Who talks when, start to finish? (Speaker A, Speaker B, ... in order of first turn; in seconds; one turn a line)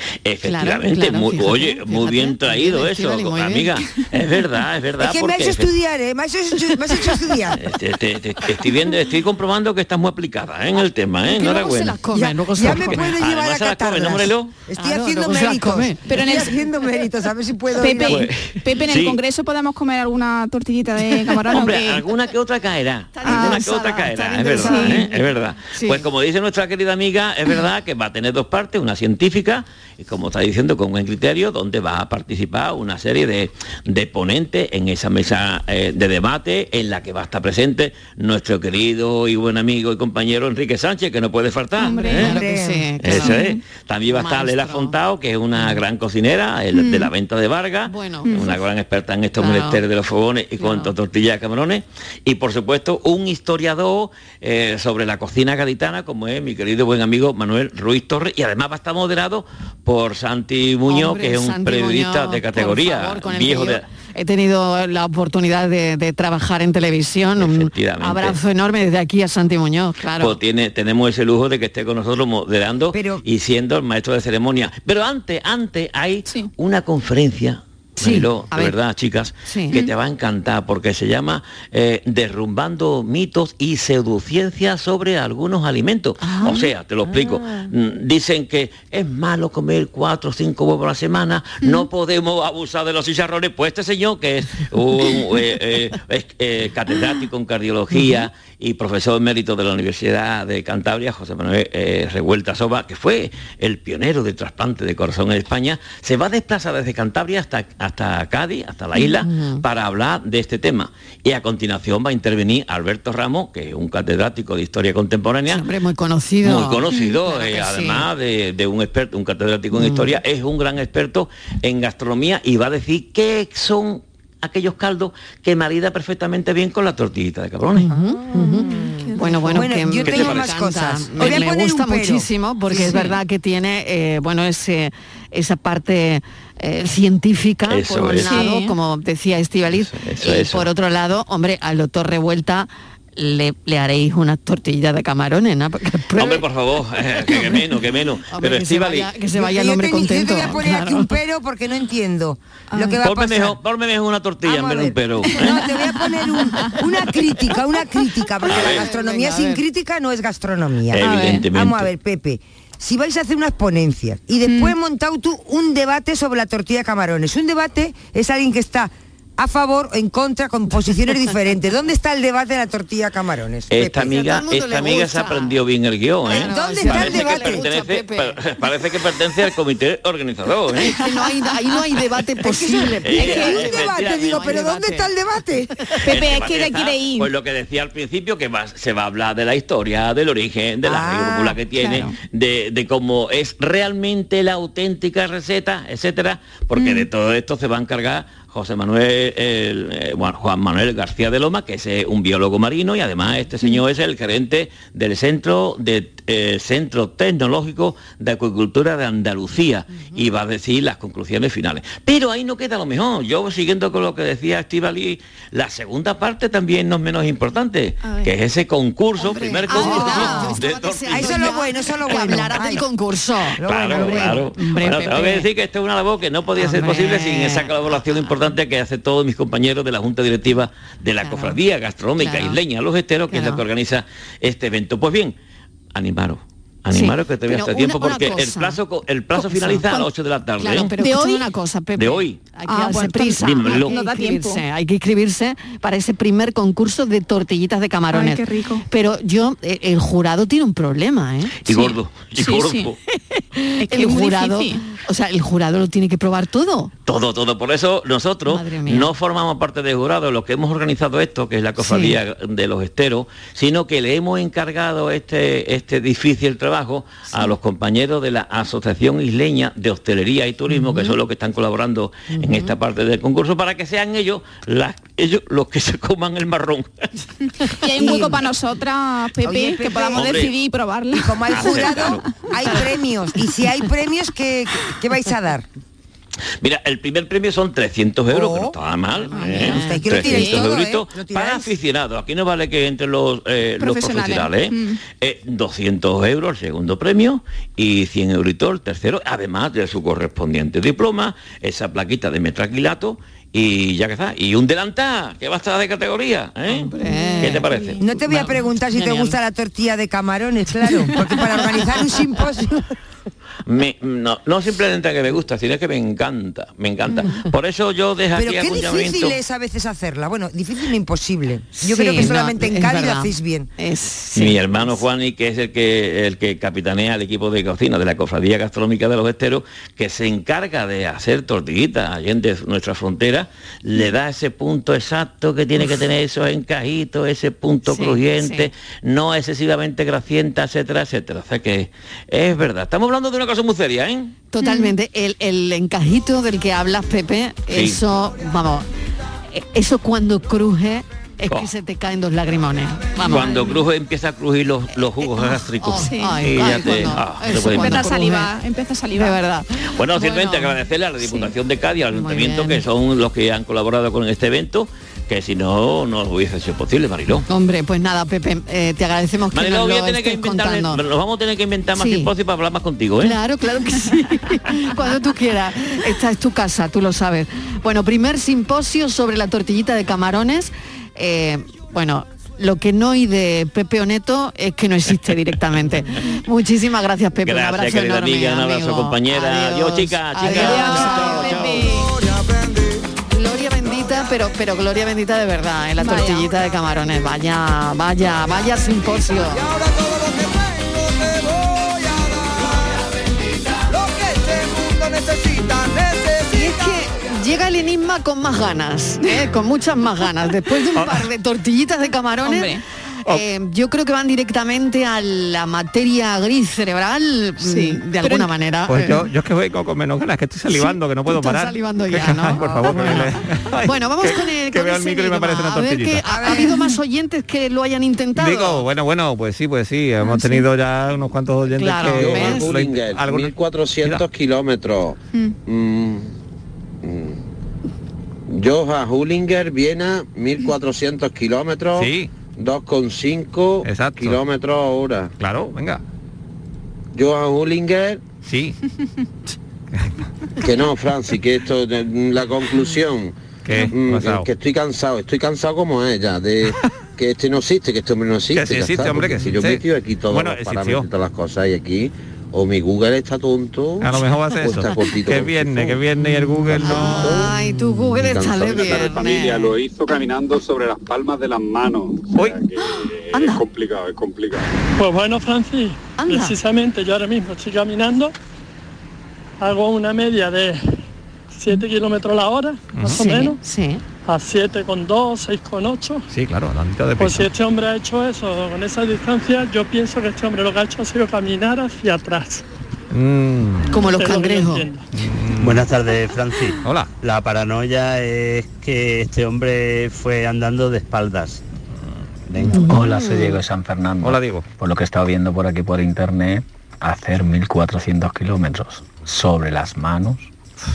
Speaker A: 0.2-5.7
Speaker B: 0.4-4.0
Speaker C: 5.0-7.6
Speaker A: 7.6-12.0
Speaker B: 11.2-13.2
Speaker C: 12.1-18.3
Speaker A: 12.9-14.5
Speaker B: 14.8-16.1
Speaker D: 16.0-16.6
Speaker D: 17.8-22.0
Speaker A: 18.1-19.2
Speaker A: 21.4-42.4
Speaker B: 23.1-26.1
Speaker D: 23.2-23.6
Speaker D: 24.5-25.1
Speaker D: 41.8-42.4
Speaker C: 42.0-43.0
Speaker B: 42.1-43.4
Speaker A: 43.0-63.8
Speaker D: 43.1-43.7
Speaker B: 44.1-45.0
Speaker D: 46.7-47.1
Speaker B: 47.9-48.6
Speaker D: 48.2-48.6
Speaker B: 49.4-49.8
Speaker B: 50.6-50.9
Speaker B: 60.9-70.4
Speaker A: 67.4-68.4
Speaker A: 70.2-115.6
Speaker C: 72.9-73.2
Speaker D: 76.3-76.5
Speaker B: 78.0-78.8
Speaker B: 79.5-79.9
Speaker B: 86.2-87.7
Speaker B: 109.2-109.6
Speaker B: 115.5-118.1
Speaker A: 116.4-128.0
Speaker D: 116.9-117.2
Speaker B: 119.7-120.1
Speaker B: 127.8-146.4
Speaker D: 128.3-129.7
Speaker C: 129.5-132.3
Speaker A: 130.1-130.6
Speaker D: 132.7-133.2
Speaker A: 137.7-138.4
Speaker D: 138.2-138.8
Speaker A: 139.7-140.7
Speaker A: 146.2-149.2
Speaker B: 147.3-147.6
Speaker B: 148.3-151.1
Speaker C: 149.3-153.6
Speaker A: 153.0-155.4
Speaker C: 154.4-174.2
Speaker D: 155.2-156.8
Speaker A: 158.5-158.9
Speaker B: 158.5-159.6
Speaker A: 160.9-161.9
Speaker D: 161.0-161.5
Speaker D: 164.5-164.8
Speaker A: 173.7-180.9
Speaker B: 174.1-175.6
Speaker B: 176.3-178.5
Speaker C: 176.3-177.7
Speaker B: 180.8-185.1
Speaker C: 182.5-185.8
Speaker A: 183.1-184.8
Speaker D: 186.0-187.3
Speaker A: 186.1-221.6
Speaker C: 190.8-191.7
Speaker D: 191.7-192.2
Speaker D: 196.8-197.1
Speaker D: 218.0-218.3
Speaker D: 219.2-220.6
Speaker B: 219.2-225.5
Speaker C: 221.1-222.9
Speaker C: 223.6-224.4
Speaker A: 223.7-235.3
Speaker B: 226.6-228.5
Speaker B: 231.2-231.6
Speaker B: 232.2-232.6
Speaker B: 233.3-233.6
Speaker A: 235.9-240.9
Speaker B: 236.9-238.8
Speaker B: 239.3-251.7
Speaker D: 241.0-241.5
Speaker A: 242.0-242.4
Speaker D: 242.7-244.6
Speaker A: 243.4-243.9
Speaker D: 248.1-248.9
Speaker A: 251.7-252.9
Speaker D: 251.7-252.9
Speaker B: 253.3-256.9
Speaker D: 253.8-254.8
Speaker A: 257.1-276.9
Speaker B: 258.5-259.1
Speaker B: 261.8-262.2
Speaker B: 270.8-271.1
Speaker B: 272.4-272.7
Speaker D: 277.8-282.9
Speaker C: 278.0-278.4
Speaker C: 279.4-280.5
Speaker A: 280.1-280.5
Speaker C: 281.1-285.7
Speaker A: 281.5-282.2
Speaker A: 286.6-308.0
Speaker C: 288.3-288.8
Speaker B: 289.3-290.2
Speaker D: 289.3-290.7
Speaker C: 289.4-291.7
Speaker D: 293.8-295.0
Speaker B: 306.7-309.4
Speaker C: 308.0-312.8
Speaker B: 310.8-312.1
Speaker A: 313.7-319.4
Speaker C: 318.3-323.7
Speaker B: 321.8-325.0
Speaker A: 324.4-344.3
Speaker B: 337.9-338.7
Speaker B: 344.5-348.9
Speaker D: 344.6-344.9
Speaker A: 347.7-348.0
Speaker B: 349.5-353.8
Speaker A: 353.2-358.1
Speaker D: 353.3-353.8
Speaker B: 355.2-358.5
Speaker D: 356.0-357.0
Speaker D: 357.6-359.4
Speaker B: 359.1-360.8
Speaker A: 360.0-367.4
Speaker D: 361.2-361.5
Speaker B: 362.1-362.8
Speaker B: 367.5-371.0
Speaker A: 369.5-373.4
Speaker B: 371.9-372.3
Speaker B: 373.2-391.9
Speaker A: 387.4-391.9
Speaker D: 390.4-392.1
Speaker B: 393.3-399.6
Speaker D: 396.0-396.5
Speaker B: 406.5-419.2
Speaker E: 411.0-411.3
Speaker D: 412.4-412.8
Speaker D: 417.6-418.5
Speaker E: 418.9-426.6
Speaker B: 420.7-423.3
Speaker B: 423.8-428.9
Speaker C: 426.2-426.8
Speaker E: 428.4-434.2
Speaker D: 430.3-430.6
Speaker B: 431.7-432.8
Speaker F: 432.0-436.3
Speaker F: 437.0-437.4
Speaker F: 438.5-445.3
Speaker E: 442.0-442.3
Speaker E: 443.8-444.4
Speaker E: 445.4-446.0
Speaker F: 447.1-448.2
Speaker E: 448.4-448.8
Speaker F: 450.6-453.4
Speaker E: 453.6-454.5
Speaker F: 453.9-467.6
Speaker E: 458.5-461.1
Speaker E: 464.0-467.4
Speaker B: 466.8-469.7
Speaker F: 468.2-469.2
Speaker G: 468.8-474.7
Speaker E: 472.3-472.6
Speaker B: 473.3-473.6
Speaker H: 475.0-478.3
Speaker B: 476.2-476.6
Speaker H: 479.6-480.8
Speaker H: 481.5-483.6
Speaker E: 482.9-483.3
Speaker B: 483.1-484.0
Speaker H: 484.2-486.3
Speaker E: 486.3-487.5
Speaker H: 487.2-492.6
Speaker E: 493.1-494.0
Speaker B: 493.9-494.9
Speaker H: 494.0-495.1
Speaker E: 495.1-495.9
Speaker I: 495.6-498.0
Speaker E: 496.8-497.1
Speaker I: 499.3-499.7
Speaker I: 501.1-501.6
Speaker E: 502.5-502.9
Speaker B: 502.7-503.5
Speaker J: 502.9-510.5
Speaker E: 504.2-504.7